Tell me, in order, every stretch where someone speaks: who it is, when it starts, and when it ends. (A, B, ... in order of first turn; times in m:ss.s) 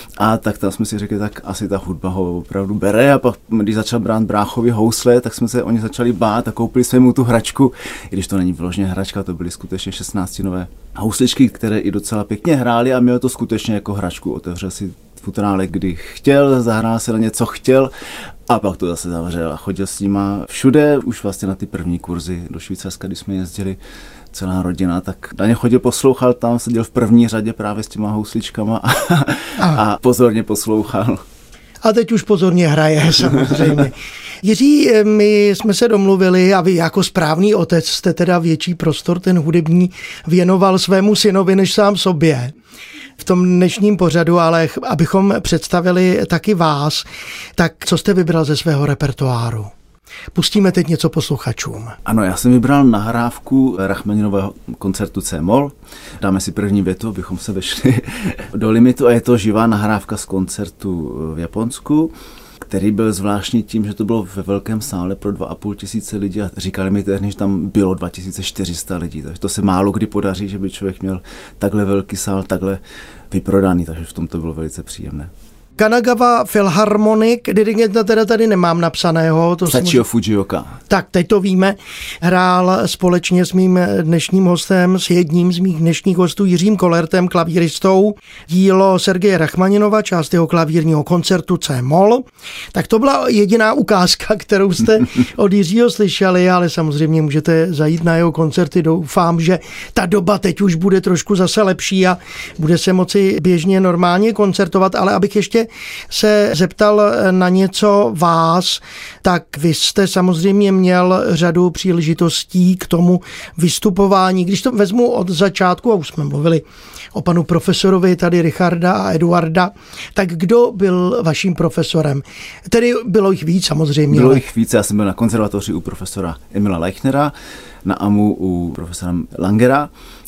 0:00.2-0:17.9 A
0:18.5-0:23.8 A
0:24.3-0:31.2 A
0:31.8-0:42.5 B
0:43.2-0:47.0 B
0:47.6-0:49.7 B
0:50.3-0:52.0 B
0:52.0-1:15.3 A
1:15.8-1:20.0 B
1:19.7-1:20.8 A
1:20.9-2:04.4 B
2:04.1-2:07.3 A
2:07.8-2:09.9 A